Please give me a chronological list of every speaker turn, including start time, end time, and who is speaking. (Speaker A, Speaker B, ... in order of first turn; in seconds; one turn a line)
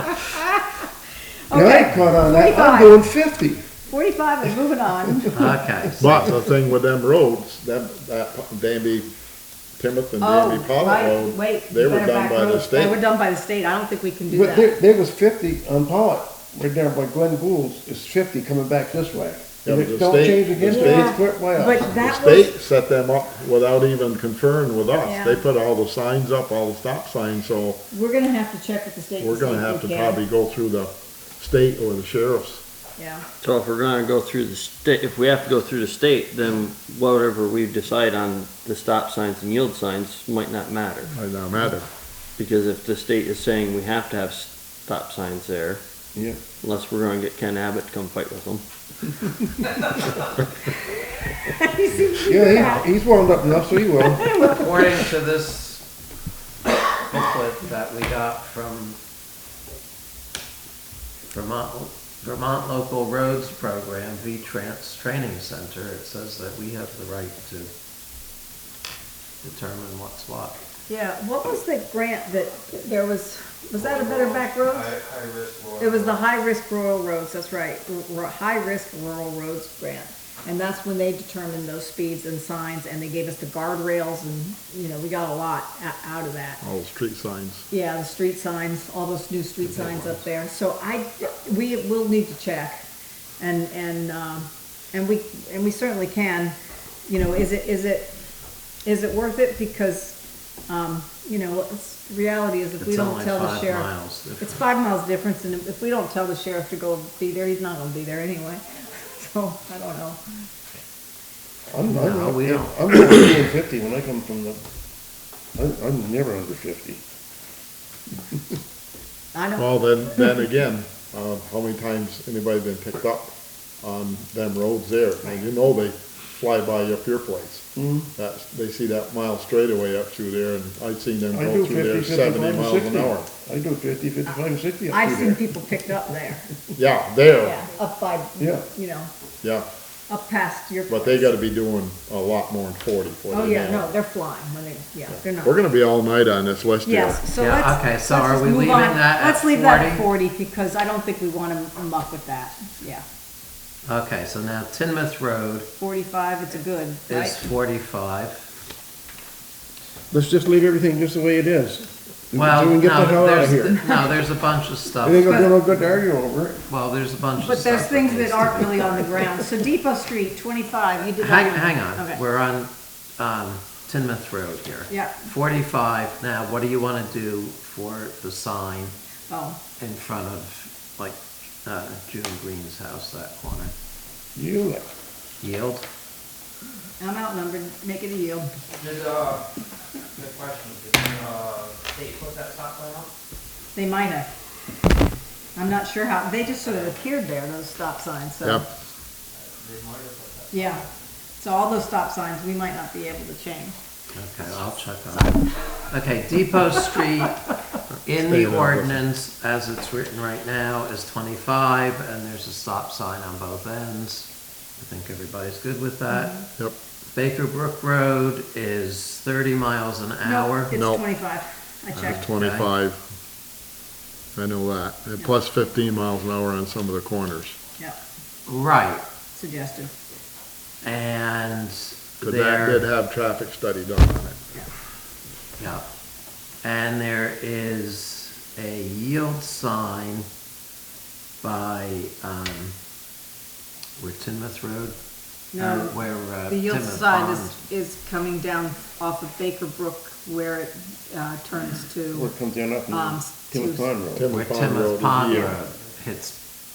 Speaker A: 1.5-3.0
Speaker B: 1.5-3.7
Speaker A: 3.9-5.6
Speaker C: 5.3-6.4
Speaker D: 6.0-9.1
Speaker D: 9.8-13.0
Speaker A: 10.2-14.7
Speaker B: 14.3-22.0
Speaker D: 19.6-21.1
Speaker A: 20.6-22.6
Speaker D: 21.9-27.8
Speaker A: 25.0-25.4
Speaker A: 27.9-30.2
Speaker D: 29.2-32.6
Speaker A: 33.0-33.3
Speaker E: 33.4-41.1
Speaker D: 41.1-41.9
Speaker E: 42.4-45.8
Speaker B: 46.1-46.4
Speaker E: 46.6-48.6
Speaker A: 51.6-52.9
Speaker B: 52.2-54.5
Speaker A: 54.1-54.6
Speaker C: 54.4-55.9
Speaker C: 56.9-59.0
Speaker C: 61.3-67.7
Speaker C: 69.4-70.6
Speaker A: 70.9-74.9
Speaker F: 75.2-75.7
Speaker A: 75.8-86.6
Speaker D: 86.6-87.7
Speaker A: 87.7-92.8
Speaker C: 89.6-90.2
Speaker A: 93.4-96.5
Speaker A: 97.1-98.1
Speaker A: 98.8-100.2
Speaker A: 100.7-110.2
Speaker C: 102.8-104.6
Speaker B: 111.7-114.6
Speaker C: 111.9-112.7
Speaker B: 115.6-117.0
Speaker A: 119.3-120.3
Speaker D: 119.6-133.3
Speaker B: 127.8-128.1
Speaker B: 131.3-135.4
Speaker A: 134.9-136.5
Speaker D: 136.7-137.6
Speaker A: 137.4-139.1
Speaker B: 138.4-138.7
Speaker A: 140.1-141.3
Speaker D: 140.9-143.9
Speaker A: 143.3-145.6
Speaker D: 145.2-147.2
Speaker A: 146.8-153.0
Speaker C: 147.4-150.1
Speaker C: 153.9-155.7
Speaker A: 155.8-157.4
Speaker C: 157.1-158.5
Speaker B: 160.1-164.0
Speaker C: 162.3-165.5
Speaker B: 165.0-166.6
Speaker C: 166.7-169.0
Speaker A: 167.4-172.2
Speaker C: 171.2-178.9
Speaker A: 174.9-175.2
Speaker A: 179.3-179.6
Speaker C: 179.8-183.7
Speaker B: 184.3-184.9
Speaker C: 185.4-185.8
Speaker A: 187.0-188.5
Speaker F: 188.9-189.4
Speaker F: 190.2-193.0
Speaker A: 193.8-194.3
Speaker A: 195.6-198.7
Speaker F: 199.7-200.6
Speaker A: 200.5-200.8
Speaker A: 201.4-203.8
Speaker C: 204.1-207.5
Speaker A: 205.1-205.4
Speaker C: 208.0-216.4
Speaker D: 208.1-209.0
Speaker A: 216.1-216.4
Speaker C: 217.1-220.7
Speaker A: 220.2-222.3
Speaker D: 220.7-221.0
Speaker C: 221.9-222.7
Speaker D: 222.0-223.0
Speaker D: 224.4-227.6
Speaker C: 228.5-229.0
Speaker A: 229.3-229.9
Speaker C: 230.8-232.9
Speaker D: 232.2-234.4
Speaker C: 235.6-235.9
Speaker C: 236.6-240.3
Speaker C: 241.4-242.8
Speaker C: 244.0-244.9
Speaker A: 245.5-252.3
Speaker C: 245.6-247.6
Speaker B: 252.1-254.3
Speaker A: 252.9-253.9
Speaker D: 254.2-255.6
Speaker C: 254.3-256.4